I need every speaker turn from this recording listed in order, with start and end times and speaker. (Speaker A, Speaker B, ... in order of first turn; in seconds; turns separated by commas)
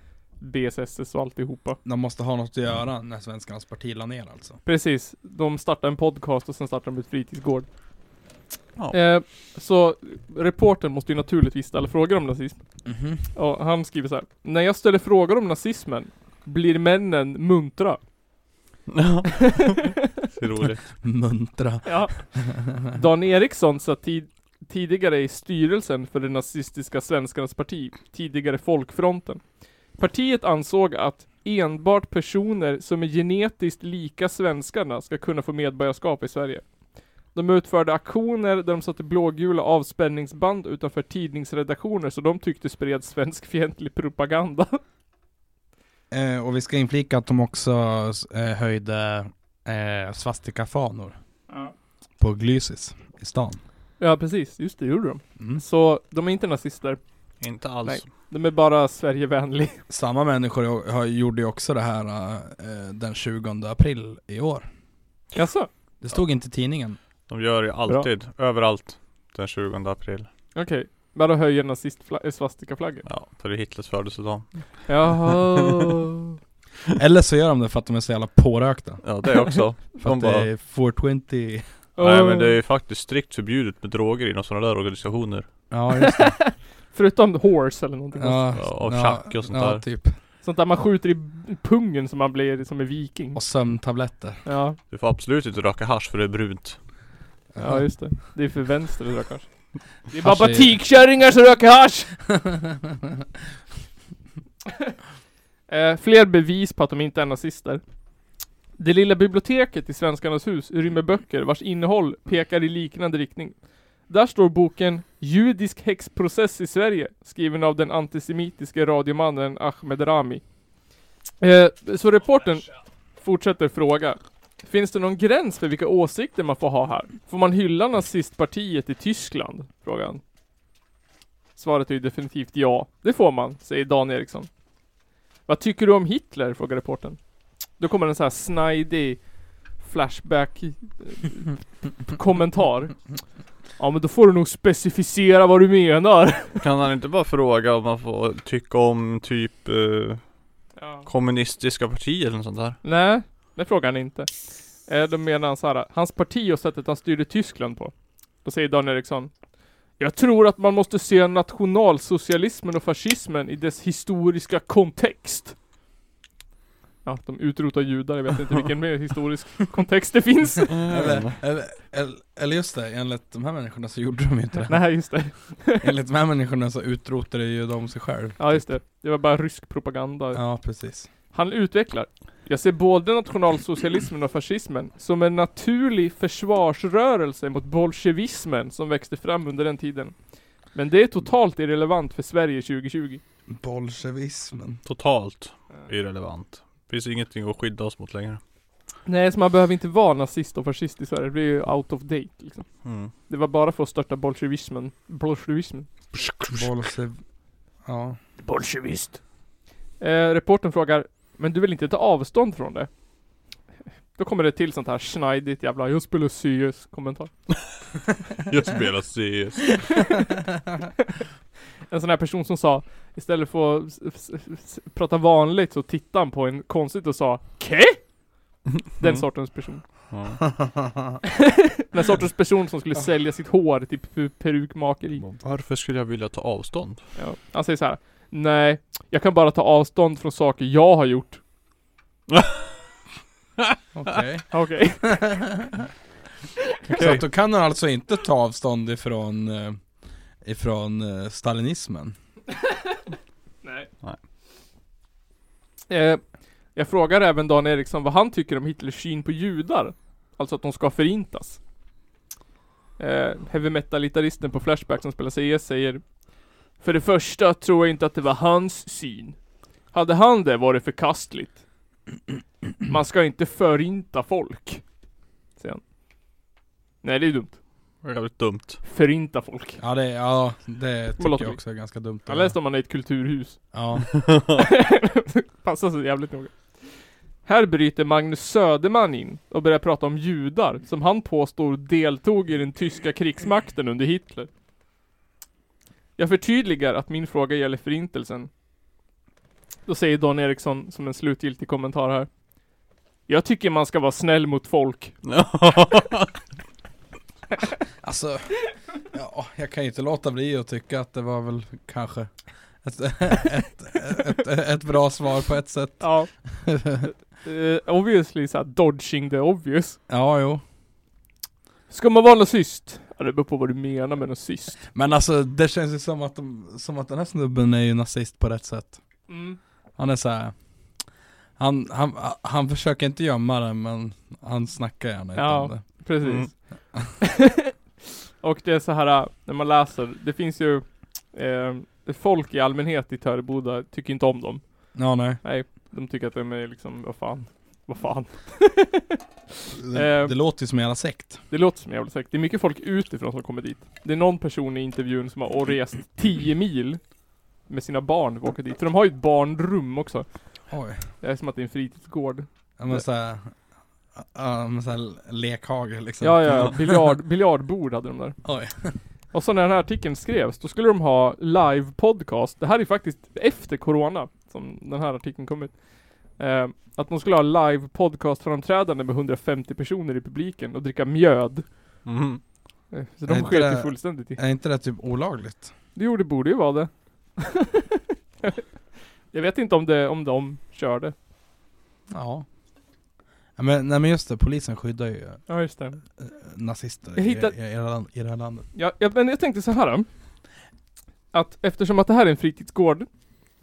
Speaker A: 0.4-1.8, Speaker B: 1.9-4.6, Speaker A: 4.7-7.7, Speaker A: 8.9-12.6, Speaker B: 12.9-13.2, Speaker A: 13.2-18.0, Speaker C: 18.9-20.9, Speaker B: 21.0-22.6, Speaker A: 21.8-22.2, Speaker A: 22.9-29.4, Speaker A: 30.0-36.6, Speaker A: 37.3-44.8, Speaker B: 46.1-51.2, Speaker B: 52.2-53.6, Speaker A: 54.0-57.0, Speaker B: 55.4-55.6, Speaker C: 57.4-58.1, Speaker A: 57.8-59.8, Speaker B: 59.9-64.7, Speaker A: 65.3-65.7, Speaker B: 66.0-67.0, Speaker C: 67.3-70.3, Speaker A: 70.5-73.1, Speaker C: 73.1-75.2, Speaker A: 74.9-76.1, Speaker B: 77.0-79.1, Speaker C: 79.0-80.5, Speaker B: 80.0-81.7, Speaker A: 82.0-82.6, Speaker C: 82.0-85.5, Speaker B: 85.7-86.4, Speaker A: 86.0-88.5, Speaker B: 88.2-90.2, Speaker C: 88.6-89.8, Speaker A: 90.4-93.4, Speaker B: 93.3-94.5, Speaker A: 94.5-94.8, Speaker C: 94.9-96.8, Speaker B: 97.5-98.0, Speaker A: 97.6-102.2, Speaker B: 100.2-100.8, Speaker B: 102.4-102.8, Speaker A: 105.7-107.8, Speaker A: 108.8-113.6, Speaker A: 114.1-120.4, Speaker A: 121.4-130.2, Speaker A: 131.6-134.5, Speaker A: 135.5-137.2, Speaker A: 137.8-139.3, Speaker A: 139.8-143.0, Speaker A: 143.8-146.6, Speaker C: 146.6-150.3, Speaker A: 150.8-151.1, Speaker C: 151.1-152.8, Speaker A: 152.8-154.3, Speaker A: 154.8-157.9, Speaker A: 158.4-159.3, Speaker A: 160.0-165.6, Speaker A: 167.1-170.8, Speaker C: 170.7-171.4, Speaker B: 170.9-175.2, Speaker A: 174.7-175.9, Speaker B: 175.8-178.7, Speaker A: 178.4-180.4, Speaker B: 180.3-181.1, Speaker A: 181.3-190.2, Speaker A: 190.7-193.2, Speaker B: 193.5-194.8, Speaker C: 194.8-198.4, Speaker A: 199.1-205.9, Speaker C: 202.8-203.1, Speaker C: 206.2-206.6, Speaker B: 206.5-207.2, Speaker B: 207.8-208.2, Speaker A: 208.4-209.2, Speaker A: 210.0-212.9, Speaker A: 214.2-217.3, Speaker C: 218.4-219.9, Speaker A: 221.9-228.0, Speaker C: 229.0-229.3, Speaker A: 229.0-229.8, Speaker C: 230.1-230.4, Speaker B: 230.6-230.9, Speaker A: 231.8-235.2, Speaker C: 235.2-237.0, Speaker A: 237.2-241.4, Speaker C: 242.3-242.6, Speaker B: 243.9-245.7, Speaker A: 244.5-245.2, Speaker A: 246.9-247.2, Speaker B: 246.9-249.8, Speaker B: 250.4-252.2, Speaker A: 255.9-256.2, Speaker A: 256.8-261.6, Speaker A: 263.0-266.1, Speaker A: 266.8-269.4, Speaker A: 269.9-271.6, Speaker A: 272.9-274.8, Speaker A: 277.0-277.6, Speaker C: 278.0-278.8, Speaker A: 278.9-279.8, Speaker B: 279.8-282.6, Speaker A: 281.2-283.7, Speaker B: 283.7-284.2, Speaker A: 284.6-286.9, Speaker A: 287.4-294.5, Speaker A: 296.2-298.5, Speaker A: 299.9-302.3, Speaker A: 303.3-305.2, Speaker C: 305.2-306.3, Speaker B: 308.0-308.6, Speaker B: 309.1-317.1, Speaker A: 316.0-316.3, Speaker A: 317.4-320.0, Speaker B: 320.1-320.6, Speaker A: 321.9-324.8, Speaker B: 324.9-329.0, Speaker A: 329.3-329.6, Speaker B: 330.0-330.6, Speaker B: 331.6-335.9, Speaker A: 335.4-336.6, Speaker C: 336.2-336.5, Speaker A: 337.3-337.7, Speaker A: 338.4-349.2, Speaker B: 344.9-345.4, Speaker B: 349.7-351.4, Speaker A: 349.9-350.4, Speaker A: 351.5-357.0, Speaker A: 357.7-360.3, Speaker B: 360.7-361.0, Speaker A: 361.2-363.0, Speaker B: 362.8-363.5, Speaker B: 364.1-367.0, Speaker A: 366.2-368.4, Speaker B: 368.4-369.0, Speaker A: 369.3-381.6, Speaker C: 382.1-382.4, Speaker A: 382.9-384.4, Speaker B: 383.3-385.7, Speaker A: 385.9-388.6, Speaker A: 389.3-391.1, Speaker B: 392.1-392.5, Speaker B: 393.6-395.4, Speaker A: 395.5-396.0, Speaker B: 396.2-398.7, Speaker A: 397.2-397.5, Speaker A: 398.8-400.1, Speaker A: 401.3-403.1